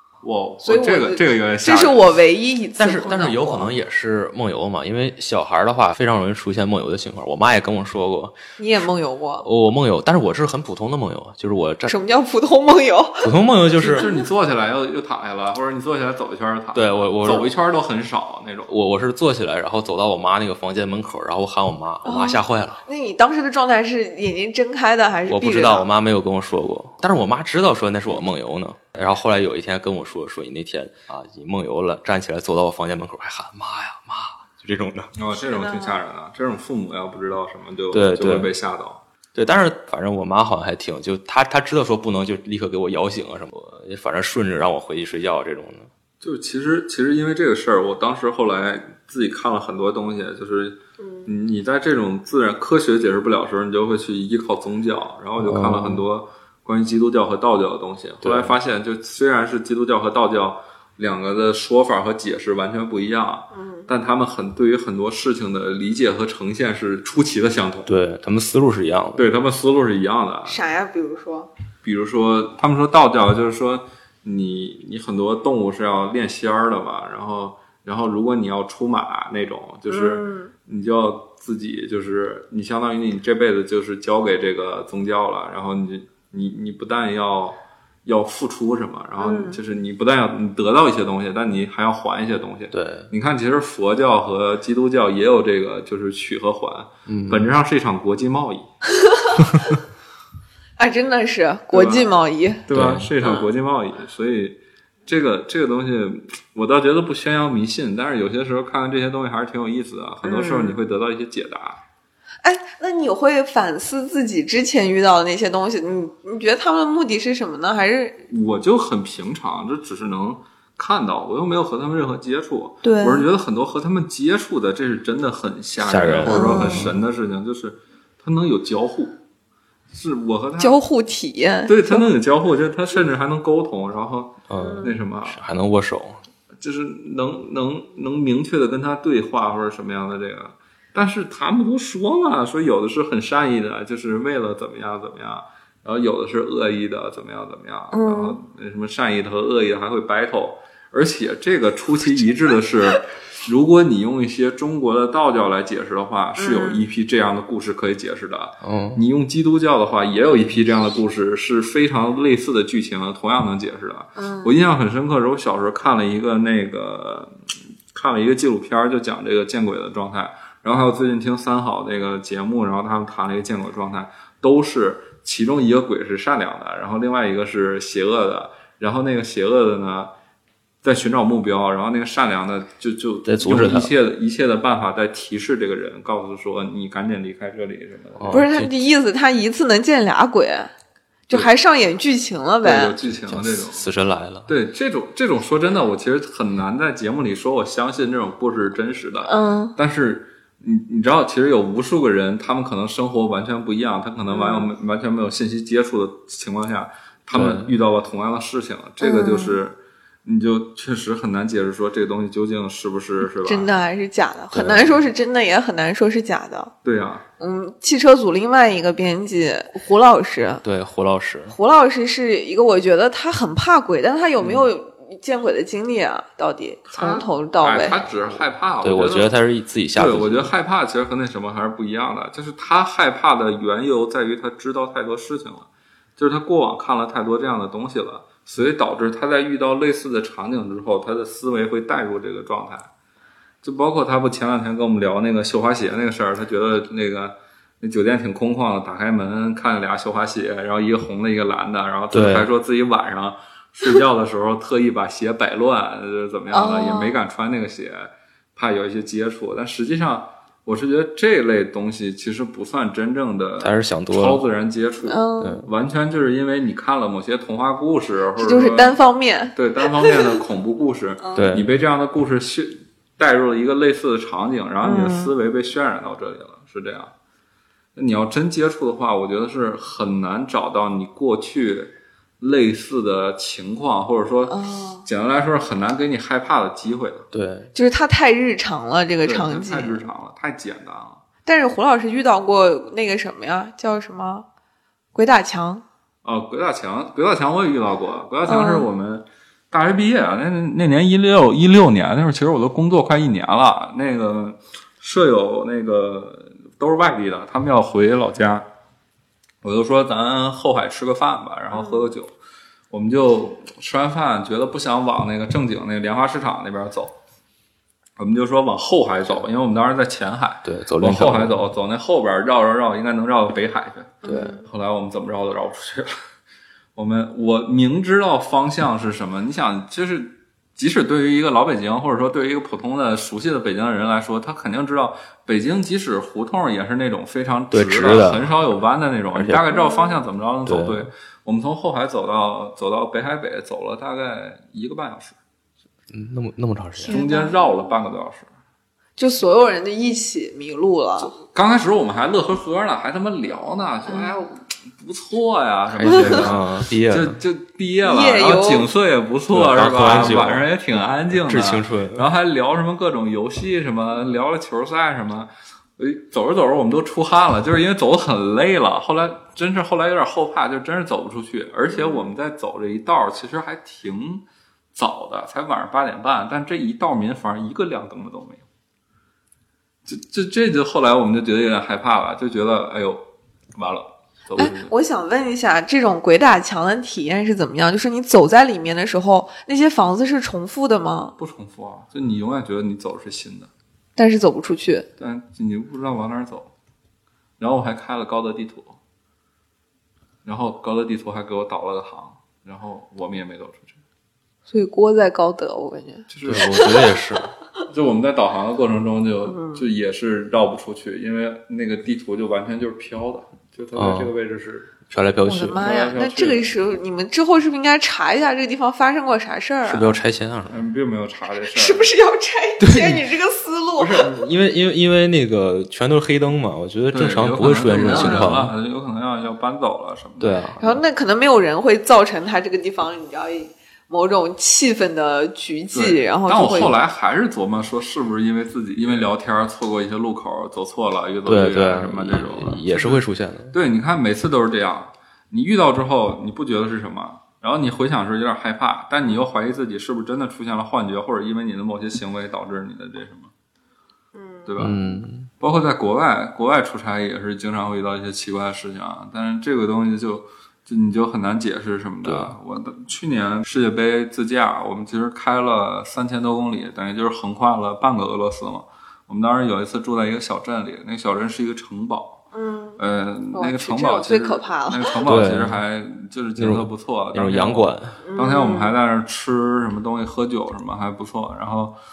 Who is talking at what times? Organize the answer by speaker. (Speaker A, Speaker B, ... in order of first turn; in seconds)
Speaker A: 0.2-2.1, 13.8-18.7, 35.2-39.0, 46.2-67.9, 69.2-70.6, 71.8-98.7, 101.7-102.1, 102.7-111.8, 118.3-129.2, 129.9-130.8, 131.7-135.4, 136.6-167.4, 167.9-180.1, 180.8-188.5, 192.6-193.9, 194.5-213.7, 216.8-217.2, 226.9-229.3, 229.9-242.9, 243.6-269.0, 269.5-277.1, 277.9-284.6, 285.1-287.3, 289.2-291.2, 296.2-308.7, 309.6-312.3, 312.9-317.1, 318.2-326.2, 327.0-345.4, 347.1-348.5, 351.2-374.4, 374.9-378.6, 380.1-383.2, 383.8-384.9, 391.4-393.7, 395.2-396.7, 397.6-399.0, 400.4-404.0, 406.3-406.9, 407.9-415.0, 415.7-416.8, 420.7-422.1, 427.1-430.6, 435.9-453.5, 454.7-455.0, 455.6-472.4, 473.0-481.9
Speaker B: 0.6-3.8, 8.6-9.5, 11.9-13.3, 13.9-14.2, 22.0-25.9, 35.5-36.0, 51.0-51.3, 63.5-63.9, 70.5-71.5, 79.9-80.5, 89.2-89.6, 99.0-99.7, 100.8-102.6, 103.2-103.5, 110.2-110.8, 112.4-118.2, 122.8-123.3, 126.3-126.9, 130.6-132.1, 134.6-135.0, 147.9-148.4, 156.4-156.8, 164.2-164.6, 188.3-190.7, 191.3-193.0, 199.2-199.8, 204.3-204.7, 209.0-209.6, 213.2-216.7, 217.4-220.6, 221.5-228.0, 256.5-257.2, 265.0-265.6, 268.4-270.4, 271.2-271.5, 274.8-275.3, 284.5-285.1, 287.8-290.1, 291.4-294.4, 295.1-295.9, 298.4-298.9, 311.7-312.1, 324.2-324.6, 339.7-340.2, 347.0-347.6, 349.2-351.3, 354.1-354.4, 356.1-356.4, 358.0-358.9, 371.9-372.3, 384.6-391.4, 394.2-395.1, 404.7-407.2, 409.4-409.9, 415.5-420.2, 421.7-424.3, 428.0-428.4, 430.8-436.9, 454.4-454.8, 472.5-473.0, 473.5-475.2, 478.2-478.9
Speaker C: 2.8-8.4, 9.4-12.0, 13.2-14.1, 16.7-17.5, 18.7-22.8, 25.3-35.1, 37.9-38.5, 39.4-45.9, 55.4-56.1, 58.2-58.5, 67.9-69.3, 92.7-93.1, 97.1-97.5, 102.7-103.1, 125.8-127.0, 134.5-136.2, 158.6-159.0, 183.2-183.9, 188.2-188.7, 193.3-194.5, 207.3-207.7, 214.5-215.0, 220.6-221.6, 228.8-230.5, 252.1-252.5, 263.6-264.4, 265.4-265.7, 271.4-271.7, 287.3-287.7, 320.6-321.7, 324.2-324.6, 337.7-338.5, 339.3-339.7, 340.6-341.1, 346.1-347.2, 355.9-357.4, 359.5-360.7, 361.3-362.3, 406.4-407.5, 413.9-414.3, 415.1-415.8, 419.9-420.8, 422.8-423.3, 424.0-428.7, 430.4-431.0, 441.4-443.8, 454.8-455.5, 462.2-462.5, 475.2-475.8, 476.6-478.2